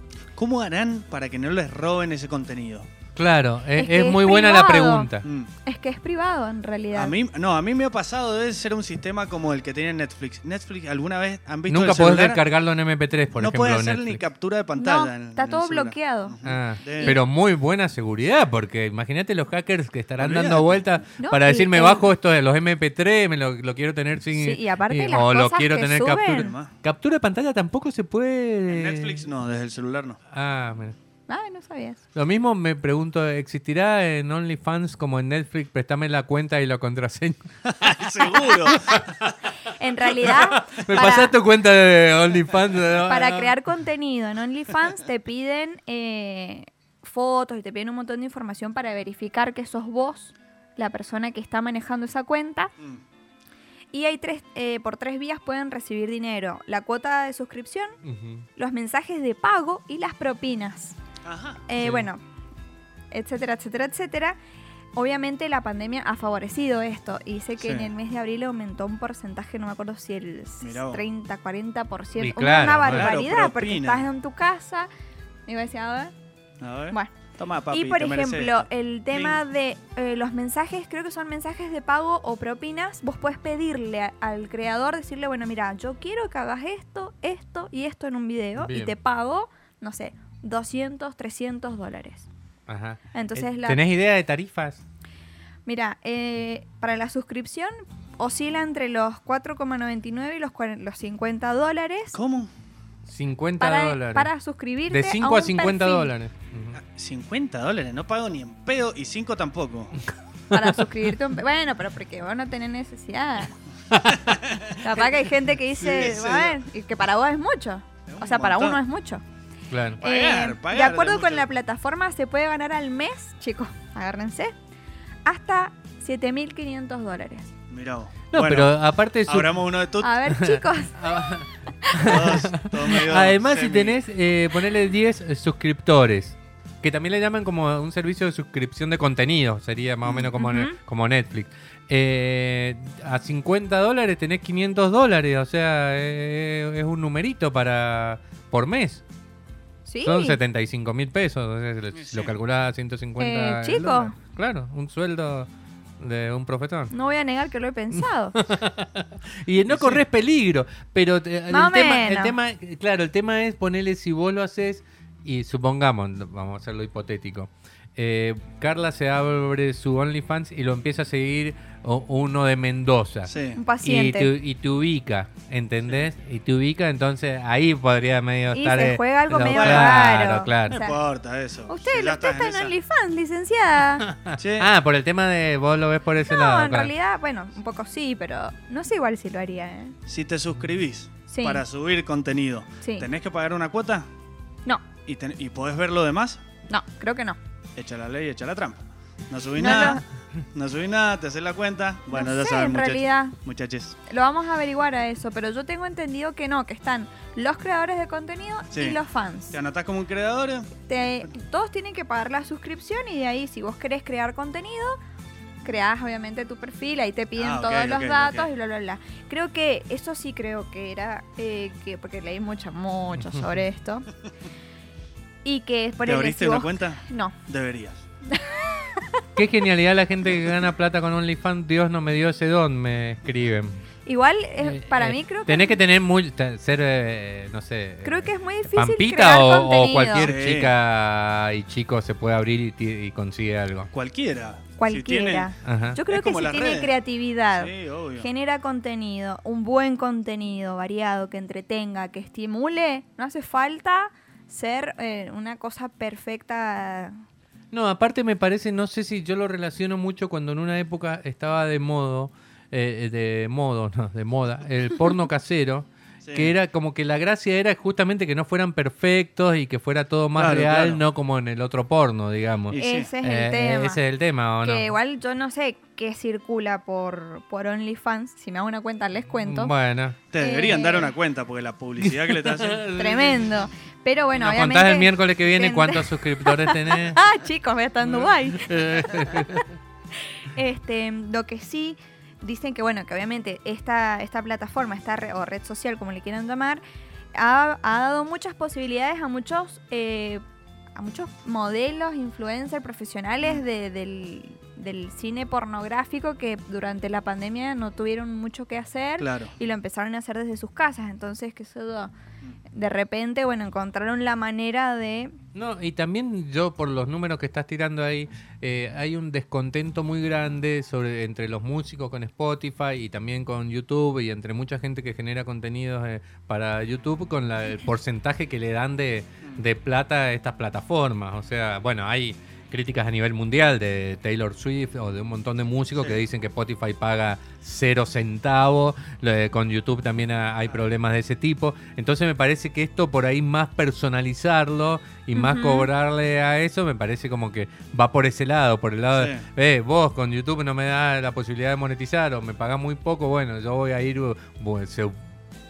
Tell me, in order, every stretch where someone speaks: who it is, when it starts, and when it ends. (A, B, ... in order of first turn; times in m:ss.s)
0:00.4-0:02.9 A
0:03.2-0:05.3 B
0:03.8-0:05.1 C
0:05.2-0:05.5 A
0:05.6-0:07.1 C
0:06.9-0:12.4 A
0:11.7-0:14.2 B
0:13.3-0:17.2 A
0:14.7-0:16.4 C
0:16.4-0:29.3 B
0:16.9-0:17.2 C
0:20.2-0:20.8 A
0:21.2-0:22.1 C
0:24.3-0:26.5 C
0:26.4-0:26.7 A
0:28.7-0:30.2 A
0:30.3-0:31.0 B
0:31.3-0:32.0 C
0:32.1-0:37.4 B
0:37.6-0:39.3 A
0:38.2-0:39.0 C
0:39.7-0:41.3 C
0:40.2-0:43.5 B
0:43.0-0:52.7 C
0:53.9-0:57.9 C
0:58.0-0:58.5 B
0:58.6-1:01.0 C
1:01.2-1:01.6 A
1:01.7-1:02.2 C
1:01.8-1:02.1 B
1:03.1-1:04.4 C
1:05.0-1:14.9 C
1:07.6-1:07.9 A
1:10.6-1:11.0 A
1:12.2-1:13.1 B
1:12.9-1:14.1 A
1:15.4-1:16.1 C
1:16.6-1:19.4 A
1:17.7-1:32.3 C
1:28.6-1:28.9 B
1:32.7-1:34.8 B
1:33.1-1:33.8 C
1:35.6-1:42.2 C
1:42.1-1:42.5 A
1:43.1-1:44.3 B
1:43.6-1:46.1 C
1:44.9-1:46.8 B
1:46.8-1:50.0 A
1:50.5-1:53.5 C
1:50.5-1:50.8 B
1:54.2-1:54.8 A
1:54.8-1:59.2 C
1:55.8-1:56.6 A
1:58.1-1:58.8 A
1:59.7-2:00.0 B
2:00.0-2:01.5 A
2:00.0-2:04.5 C
2:05.2-2:07.5 C
2:07.7-2:10.2 A
2:08.3-2:09.6 B
2:10.0-2:12.4 C
2:10.3-2:29.0 B
2:12.0-2:14.0 A
2:20.0-2:20.3 A
2:20.4-2:20.7 C
2:29.8-2:30.4 C
2:30.0-2:36.9 B
2:31.9-2:32.3 A
2:33.2-2:34.2 C
2:36.9-2:38.4 C
2:37.9-3:00.8 B
2:39.7-2:40.0 A
2:41.5-2:42.4 C
2:53.3-2:53.6 A
2:53.5-2:54.3 C
2:58.5-3:01.0 C
2:59.4-3:00.0 A
3:00.7-3:02.7 A
3:01.7-3:04.0 C
3:04.2-3:06.9 B
3:04.3-3:04.7 A
3:06.2-3:09.9 C
3:10.1-3:14.1 A
3:11.3-3:11.6 C
3:12.8-3:13.1 C
3:15.0-3:16.4 A
3:16.7-3:17.4 C
3:17.8-3:20.0 A
3:19.6-3:20.0 C
3:20.5-3:24.0 A
3:22.1-3:23.4 C
3:24.1-3:29.6 C
3:28.7-3:29.0 A
3:29.5-3:30.9 A
3:30.9-3:35.0 C
3:35.6-3:44.1 C
3:37.3-3:38.5 A
3:43.1-3:43.6 B
3:45.4-3:47.4 C
3:46.0-3:48.0 A
3:48.3-3:49.2 C
3:49.4-3:53.8 B
3:54.0-3:55.8 C
3:54.6-4:03.9 B
3:58.0-4:00.3 C
4:00.2-4:00.7 A
4:03.9-4:05.5 A
4:04.8-4:17.1 C
4:05.6-4:06.0 B
4:06.0-4:07.0 A
4:07.5-4:08.3 A
4:17.7-4:34.9 B
4:26.2-4:26.5 A
4:30.4-4:31.0 A
4:32.7-4:33.1 A
4:32.7-4:34.0 C
4:34.6-4:39.7 C
4:39.4-4:40.2 B
4:40.3-4:42.8 A
4:40.4-4:41.1 C
4:42.2-4:43.5 B
4:42.9-4:49.5 C
4:44.4-4:47.2 B
4:48.0-4:49.7 B
4:50.4-4:56.8 C
4:57.3-5:00.4 C
5:00.9-5:12.1 C
5:09.2-5:09.5 A
5:12.7-5:15.3 C
5:15.5-5:55.2 B
5:36.0-5:36.2 A
5:45.3-5:45.9 C
5:49.1-5:49.4 A